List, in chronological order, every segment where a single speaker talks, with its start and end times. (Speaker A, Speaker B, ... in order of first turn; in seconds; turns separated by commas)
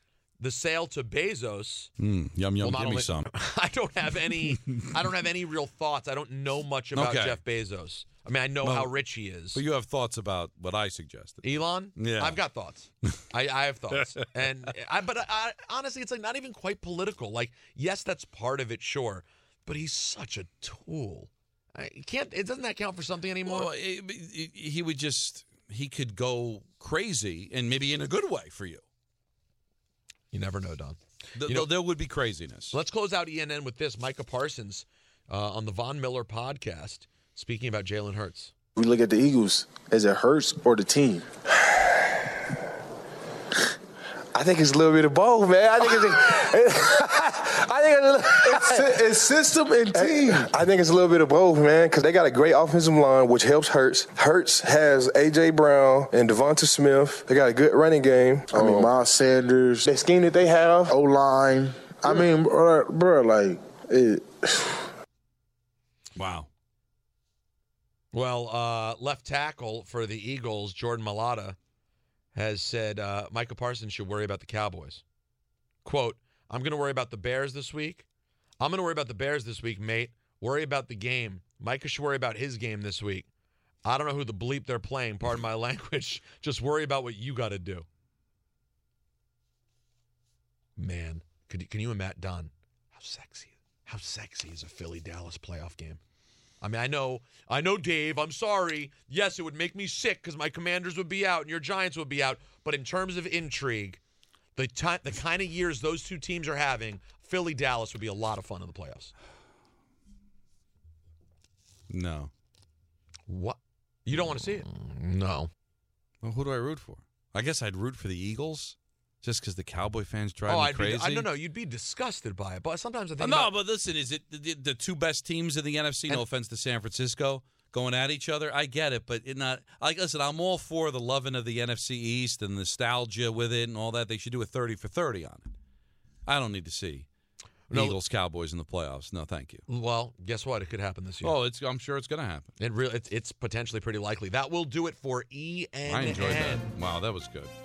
Speaker A: 0.4-1.9, Speaker B: 2.0-3.3, Speaker A: 2.6-9.6, Speaker B: 6.9-7.4, Speaker B: 8.6-8.9, Speaker B: 9.5-12.4, Speaker A: 11.4-23.7, Speaker B: 23.4-28.8, Speaker A: 30.3-31.7, Speaker B: 31.4-32.8, Speaker A: 32.7-38.5, Speaker C: 38.8-41.2, Speaker C: 44.3-59.0, Speaker D: 48.5-50.5, Speaker D: 58.5-59.8, Speaker C: 59.8-61.0, Speaker D: 60.9-62.2, Speaker C: 62.0-63.2, Speaker C: 63.9-64.2, Speaker B: 66.2-66.5, Speaker A: 68.1-71.6, Speaker A: 72.3-75.0, Speaker A: 75.8-78.0, Speaker A: 78.6-83.3, Speaker A: 83.8-87.8, Speaker A: 90.8-96.0, Speaker A: 96.6-104.0, Speaker A: 104.5-109.1, Speaker B: 111.9-112.3, Speaker A: 113.3-115.5, Speaker B: 116.2-121.3, Speaker A: 120.5-123.5, Speaker B: 123.2-135.5, Speaker B: 136.2-137.1, Speaker A: 137.7-138.0, Speaker B: 137.7-139.6, Speaker A: 139.7-141.4, Speaker B: 141.2-142.5, Speaker A: 142.6-146.8, Speaker B: 145.9-147.5